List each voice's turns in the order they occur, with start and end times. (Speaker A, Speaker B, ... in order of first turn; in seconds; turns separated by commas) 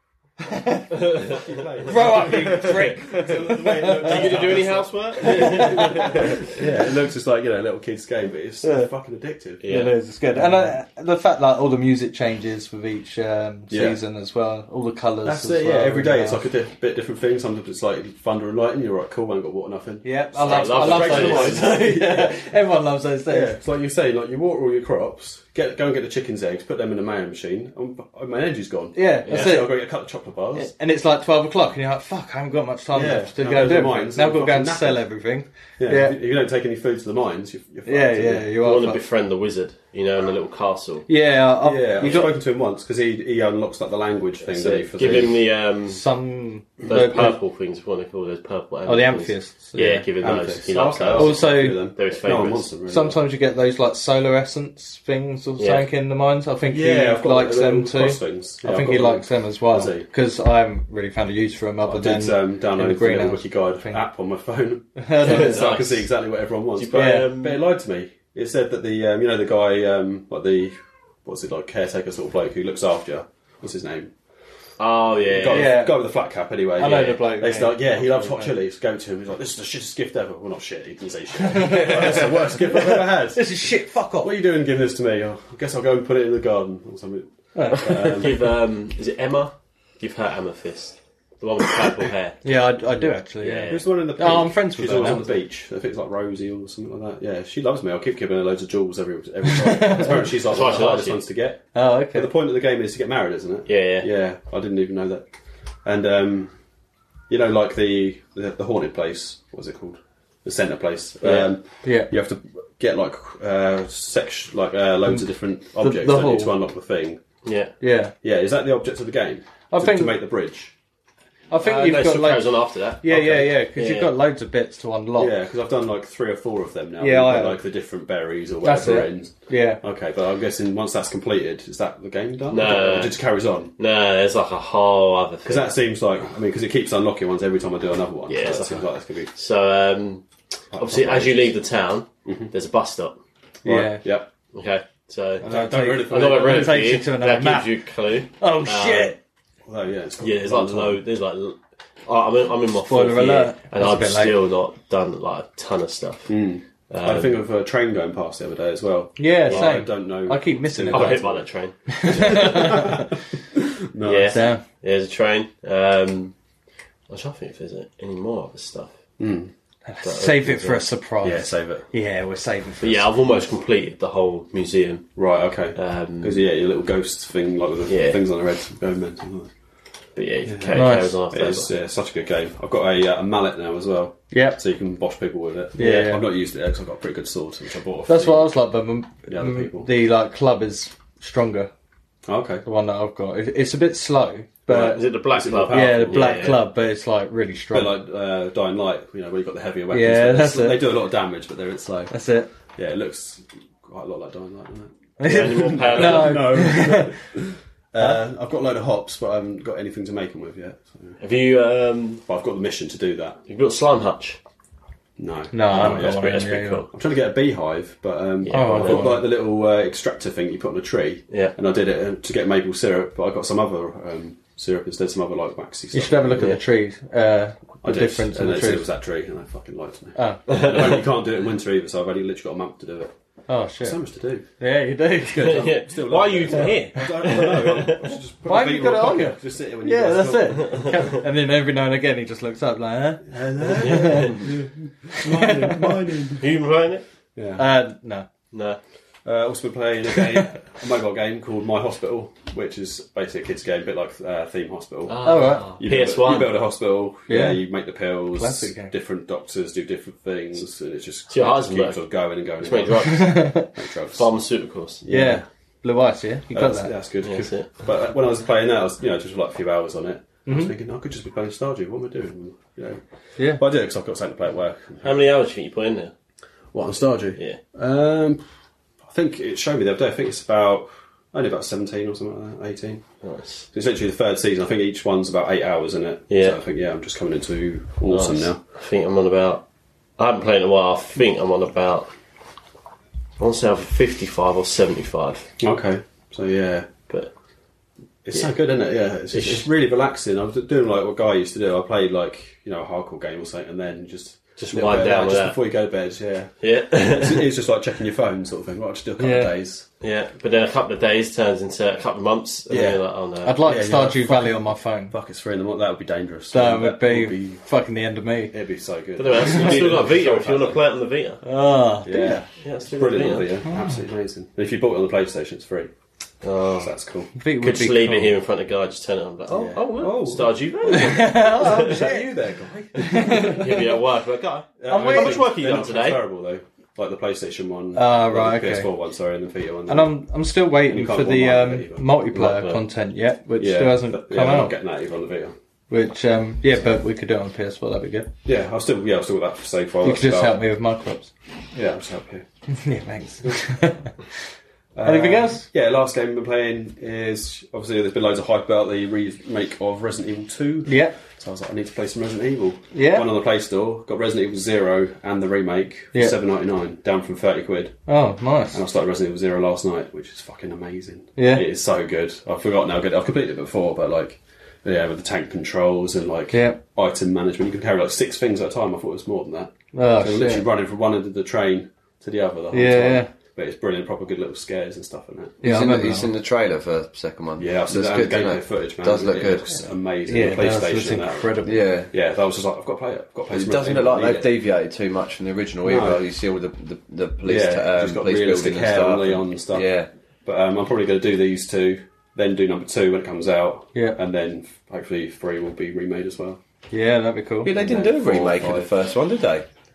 Speaker A: 0.4-1.2, Speaker B: 1.0-6.5, Speaker C: 1.3-9.6, Speaker A: 1.8-4.5, Speaker A: 5.2-6.6, Speaker B: 9.6-9.9, Speaker A: 9.7-16.4, Speaker C: 10.3-10.8, Speaker C: 13.7-14.0, Speaker C: 15.2-22.4, Speaker A: 20.0-23.6, Speaker B: 20.4-21.8, Speaker C: 23.3-30.7, Speaker A: 28.9-29.8, Speaker B: 29.2-29.6, Speaker A: 30.5-36.2, Speaker C: 32.9-35.0, Speaker C: 35.8-38.5, Speaker A: 37.9-39.0, Speaker B: 38.6-41.1, Speaker A: 41.1-42.3, Speaker C: 41.6-45.4, Speaker B: 42.0-42.3, Speaker B: 44.4-46.0, Speaker A: 45.9-47.4, Speaker B: 46.8-52.7, Speaker A: 48.9-50.1, Speaker C: 50.2-53.2, Speaker A: 51.1-51.9, Speaker A: 52.9-64.0, Speaker B: 55.6-55.9, Speaker C: 56.7-60.1, Speaker C: 61.9-74.1, Speaker A: 65.0-65.7, Speaker B: 65.2-66.1, Speaker B: 66.7-67.6, Speaker A: 66.9-67.3, Speaker B: 74.8-75.8, Speaker C: 75.2-88.5, Speaker A: 75.5-76.0, Speaker A: 76.8-78.5, Speaker A: 81.4-84.3, Speaker A: 87.5-88.1, Speaker B: 88.1-92.4, Speaker A: 92.4-95.3, Speaker B: 93.4-93.8, Speaker C: 93.7-106.5, Speaker A: 99.4-100.3, Speaker B: 100.5-101.2, Speaker A: 101.7-102.3, Speaker B: 103.7-104.1, Speaker C: 107.3-117.2, Speaker B: 111.2-111.5, Speaker A: 111.8-112.1, Speaker A: 115.1-116.5, Speaker B: 117.4-117.7, Speaker A: 117.8-118.1, Speaker C: 118.2-120.7, Speaker A: 119.7-120.1, Speaker A: 121.5-125.3, Speaker B: 121.6-124.1, Speaker C: 125.2-133.7, Speaker A: 127.0-127.6, Speaker A: 128.6-129.8, Speaker B: 132.5-133.2, Speaker B: 133.8-135.8, Speaker C: 135.4-139.3, Speaker B: 138.3-143.2, Speaker C: 140.7-141.6, Speaker C: 142.2-142.5, Speaker A: 143.6-144.0, Speaker C: 143.6-144.3, Speaker B: 144.5-145.4, Speaker A: 145.4-147.8, Speaker C: 145.4-147.0, Speaker B: 146.1-149.1, Speaker A: 148.4-149.2, Speaker C: 149.7-151.0, Speaker B: 150.2-157.4, Speaker A: 152.9-154.4, Speaker C: 156.3-161.5, Speaker A: 159.2-161.2, Speaker B: 159.5-159.8, Speaker B: 160.9-162.9, Speaker A: 161.9-163.1, Speaker C: 162.1-164.4, Speaker B: 164.0-166.3, Speaker A: 164.3-164.6, Speaker B: 167.1-169.0, Speaker C: 169.2-169.5, Speaker A: 169.8-173.1, Speaker B: 170.0-170.8, Speaker C: 171.2-171.9, Speaker B: 172.8-175.2, Speaker C: 175.2-179.5, Speaker B: 175.7-176.4, Speaker B: 177.9-178.2, Speaker B: 180.2-181.7, Speaker C: 180.5-188.5, Speaker A: 180.7-181.1, Speaker A: 184.3-184.6, Speaker A: 185.7-186.2, Speaker B: 185.8-186.1, Speaker A: 188.1-191.7, Speaker C: 189.3-189.9, Speaker C: 192.3-192.6, Speaker A: 192.6-195.0, Speaker C: 194.7-196.6, Speaker B: 194.7-196.6, Speaker A: 195.7-198.0, Speaker C: 197.7-202.2, Speaker A: 199.9-200.8, Speaker A: 202.1-202.5, Speaker C: 202.7-211.2, Speaker A: 205.2-207.2, Speaker B: 205.2-206.6, Speaker B: 211.2-212.2, Speaker C: 212.2-213.4, Speaker B: 213.5-214.4, Speaker C: 215.2-226.6, Speaker A: 215.5-216.8, Speaker B: 215.7-216.9, Speaker B: 218.4-219.2, Speaker A: 218.5-219.2, Speaker B: 221.3-221.5, Speaker A: 225.9-228.9, Speaker C: 227.8-233.1, Speaker A: 230.2-230.5, Speaker B: 230.5-231.0, Speaker A: 233.5-234.0, Speaker C: 233.8-234.4, Speaker A: 234.6-235.7, Speaker C: 235.3-241.1, Speaker B: 235.3-238.2, Speaker A: 238.4-244.5, Speaker B: 240.6-241.1, Speaker C: 243.2-246.5, Speaker B: 243.8-244.4, Speaker A: 245.2-246.0, Speaker B: 246.4-247.0, Speaker C: 247.3-247.7, Speaker A: 247.6-248.3, Speaker B: 248.5-248.8, Speaker C: 249.2-264.3, Speaker B: 255.1-256.6, Speaker A: 255.2-255.8, Speaker A: 257.3-257.6, Speaker A: 258.3-258.9, Speaker B: 261.3-265.0, Speaker A: 263.0-263.7, Speaker C: 265.0-265.4, Speaker A: 265.1-266.9, Speaker C: 266.5-275.2, Speaker B: 267.2-267.7, Speaker A: 270.4-270.7, Speaker B: 275.0-276.1, Speaker C: 276.7-278.4, Speaker C: 279.0-283.1, Speaker B: 283.2-283.7, Speaker C: 283.7-288.6, Speaker B: 286.3-286.6, Speaker B: 288.1-289.6, Speaker B: 290.2-292.1, Speaker B: 293.4-295.5, Speaker C: 295.6-296.9, Speaker C: 298.2-309.9, Speaker B: 299.3-299.7, Speaker B: 304.6-305.6, Speaker B: 306.6-307.5, Speaker A: 309.2-309.5, Speaker B: 310.0-313.6, Speaker C: 312.7-313.0, Speaker A: 313.4-315.1, Speaker C: 313.6-317.6, Speaker A: 316.5-318.5, Speaker C: 318.5-320.8, Speaker B: 319.2-321.4, Speaker A: 321.4-322.4, Speaker C: 322.0-325.9, Speaker B: 322.6-323.6, Speaker B: 326.4-326.9, Speaker C: 326.8-327.3, Speaker A: 327.4-328.3, Speaker B: 327.6-332.1, Speaker C: 329.5-333.6, Speaker A: 330.8-332.3, Speaker A: 332.9-333.9, Speaker B: 333.1-336.2, Speaker C: 334.8-340.1, Speaker A: 334.9-335.5, Speaker A: 337.9-338.9, Speaker A: 339.9-344.7, Speaker C: 340.9-342.1, Speaker B: 342.3-342.8, Speaker C: 343.6-345.5, Speaker A: 345.9-348.3, Speaker C: 348.4-350.6, Speaker A: 350.0-351.3, Speaker C: 351.7-352.4, Speaker A: 352.7-354.1, Speaker C: 354.9-368.0, Speaker A: 355.0-355.7, Speaker A: 360.9-361.2, Speaker A: 362.9-363.3, Speaker A: 368.1-368.8, Speaker C: 368.7-385.6, Speaker A: 371.4-371.6, Speaker A: 376.5-376.8, Speaker A: 379.9-380.6, Speaker A: 382.7-383.3, Speaker A: 385.6-386.3, Speaker D: 385.6-389.6, Speaker C: 387.6-394.5, Speaker A: 390.2-391.8, Speaker D: 391.6-392.1, Speaker D: 393.5-400.1, Speaker C: 395.8-396.3, Speaker C: 397.4-399.9, Speaker C: 400.4-406.6, Speaker A: 406.9-407.7, Speaker D: 407.6-409.6, Speaker C: 407.7-408.9